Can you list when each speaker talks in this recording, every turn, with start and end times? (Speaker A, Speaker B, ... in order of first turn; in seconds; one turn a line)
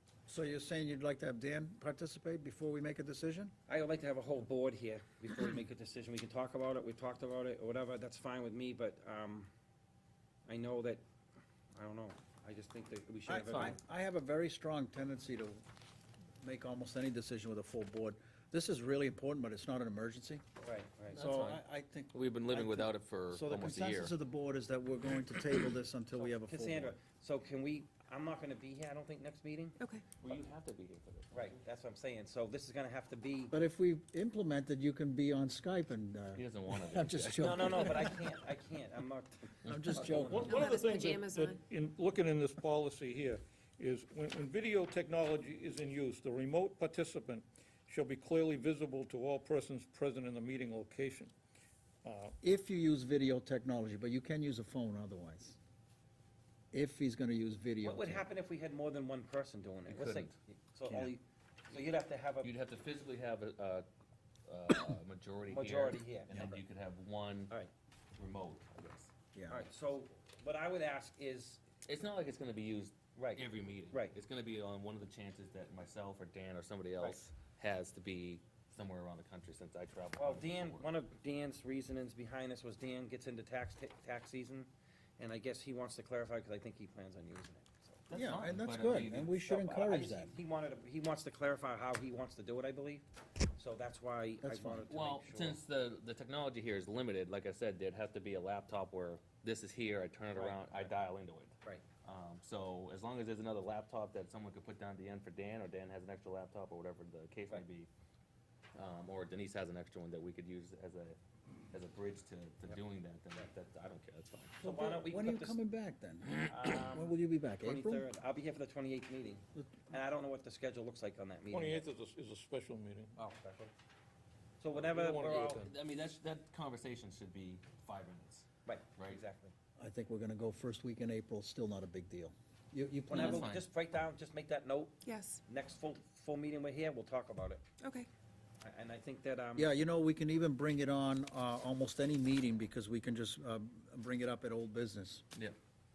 Speaker A: 0.3-3.5
Speaker B: 3.7-9.5
Speaker B: 10.5-11.0
Speaker B: 11.7-13.8
Speaker A: 13.3-15.6
Speaker A: 16.4-20.5
Speaker B: 20.6-21.2
Speaker C: 21.1-24.1
Speaker A: 21.2-27.0
Speaker B: 26.1-29.8
Speaker D: 29.8-30.1
Speaker C: 30.2-31.6
Speaker B: 31.3-33.5
Speaker A: 33.5-38.2
Speaker C: 36.4-38.1
Speaker B: 37.3-40.5
Speaker A: 39.7-40.4
Speaker E: 39.9-51.3
Speaker D: 40.5-41.6
Speaker E: 52.0-52.4
Speaker A: 52.4-55.6
Speaker A: 56.7-58.3
Speaker B: 57.8-62.5
Speaker C: 59.9-60.4
Speaker C: 62.4-63.9
Speaker C: 64.5-67.5
Speaker B: 65.5-66.6
Speaker C: 68.2-69.1
Speaker A: 69.3-69.6
Speaker B: 69.5-71.6
Speaker C: 71.9-80.8
Speaker B: 73.2-74.2
Speaker B: 77.0-77.2
Speaker B: 80.2-88.1
Speaker C: 88.1-89.4
Speaker A: 88.1-90.3
Speaker B: 89.3-93.0
Speaker B: 93.6-95.6
Speaker A: 94.4-94.8
Speaker C: 94.9-107.9
Speaker B: 100.3-100.9
Speaker C: 108.8-111.2
Speaker C: 111.7-114.6
Speaker B: 114.6-115.6
Speaker A: 114.8-116.3
Speaker B: 116.4-121.8
Speaker A: 116.9-118.0
Speaker A: 119.6-119.9
Speaker E: 121.5-123.2
Speaker B: 123.2-123.7
Speaker B: 124.6-125.7
Speaker E: 124.7-125.7
Speaker C: 125.2-129.2
Speaker B: 128.7-129.5
Speaker A: 129.8-133.3
Speaker B: 133.1-137.7
Speaker C: 133.1-133.7
Speaker D: 135.0-135.4
Speaker D: 137.8-138.1
Speaker B: 138.6-139.8
Speaker A: 139.6-145.3